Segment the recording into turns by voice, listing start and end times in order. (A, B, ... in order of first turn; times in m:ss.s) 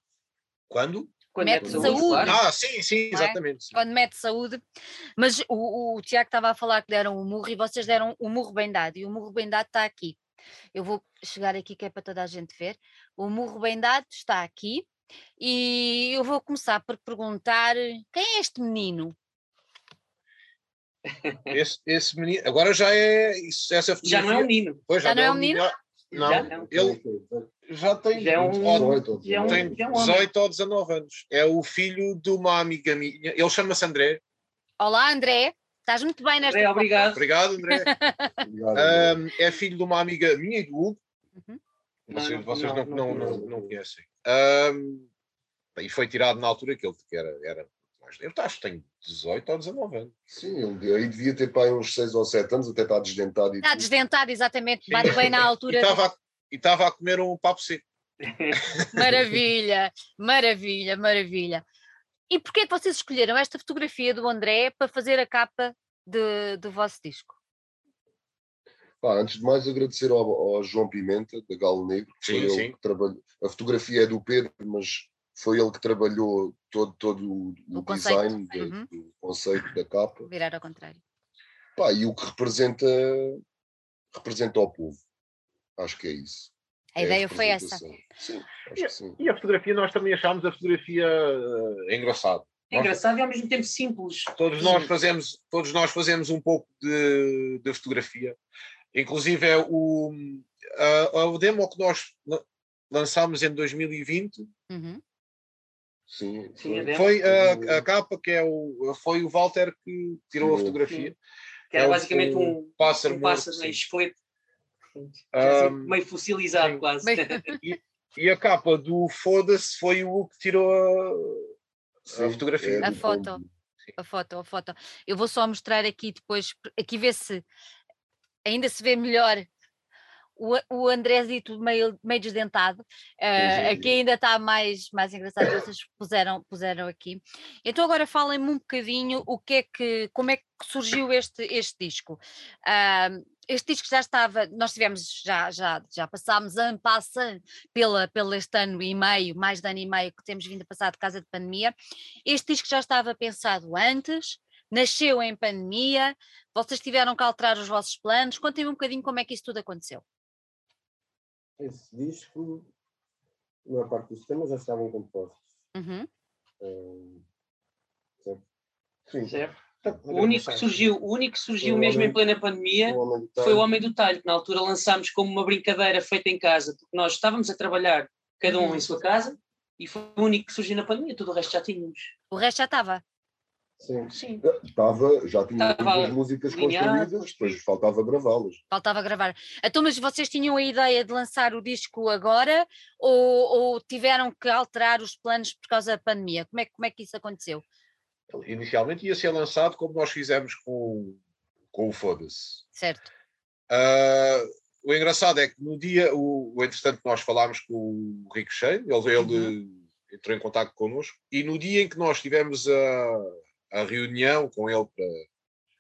0:00.7-0:03.8 A
0:01.3-0:02.4 B
0:01.4-0:02.4 C
0:03.1-0:04.6 C
0:05.2-0:10.2 C
0:10.7-0:14.9 C
0:15.4-0:19.2 C
0:21.1-0:21.6 B
0:21.5-0:27.0 A
0:24.0-0:24.8 B
0:25.0-0:25.7 C
0:26.1-0:27.5 D
0:26.2-0:26.7 B
0:27.7-0:34.2 A
0:28.2-0:30.3 B
0:28.6-0:30.0 E
0:34.8-0:38.4 C
0:36.4-0:37.2 B
0:37.1-0:37.9 A
0:38.4-0:39.2 E
0:38.7-0:41.0 A
0:42.1-0:45.1 A
0:42.1-0:43.4 B
0:43.1-0:43.7 D
0:43.1-0:43.5 E
0:45.8-0:50.1 A
0:50.3-0:53.9 E
0:53.6-0:56.0 C
0:54.9-0:57.8 A
0:58.2-0:58.6 B
0:58.5-0:58.9 A
0:58.9-1:01.6 C
1:02.3-1:07.4 C
1:09.0-1:20.3 E
1:12.2-1:12.7 A
1:17.7-1:18.9 C
1:20.3-1:21.0 C
1:21.8-1:23.4 E
1:24.1-1:25.0 E
1:25.8-1:29.2 E
1:27.0-1:27.8 C
1:28.8-1:33.0 A
1:32.7-1:34.8 B
1:34.3-1:38.4 A
1:34.6-1:34.9 C
1:38.9-1:44.5 A
1:44.7-1:45.0 C
1:46.1-1:47.8 E
1:46.6-1:47.1 B
1:46.9-1:51.2 A
1:50.4-1:50.8 E
1:51.7-1:54.2 B
1:51.7-1:53.8 A
1:54.9-1:57.6 B
1:55.3-1:56.0 A
1:56.5-1:56.8 A
1:57.0-1:57.6 C
1:57.6-2:01.5 A
2:02.1-2:03.0 A
2:02.1-2:03.5 E
2:02.8-2:03.4 C
2:04.0-2:07.4 C
2:08.4-2:09.5 C
2:10.4-2:31.7 C
2:13.4-2:14.0 E
2:32.3-2:40.0 C
2:41.6-2:42.7 D
2:43.6-2:45.4 D
2:45.8-2:46.1 C
2:46.6-2:47.2 D
2:49.1-2:50.8 D
2:49.3-3:02.1 B
2:51.6-2:52.2 D
2:52.8-2:53.7 D
2:58.5-2:58.8 C
3:02.3-3:03.0 C
3:03.8-3:04.1 D
3:04.4-3:08.6 E
3:05.6-3:07.6 B
3:08.7-3:17.6 C
3:18.3-3:21.2 A
3:21.7-3:22.6 A
3:22.8-3:23.1 C
3:23.7-3:35.2 A
3:29.2-3:29.6 C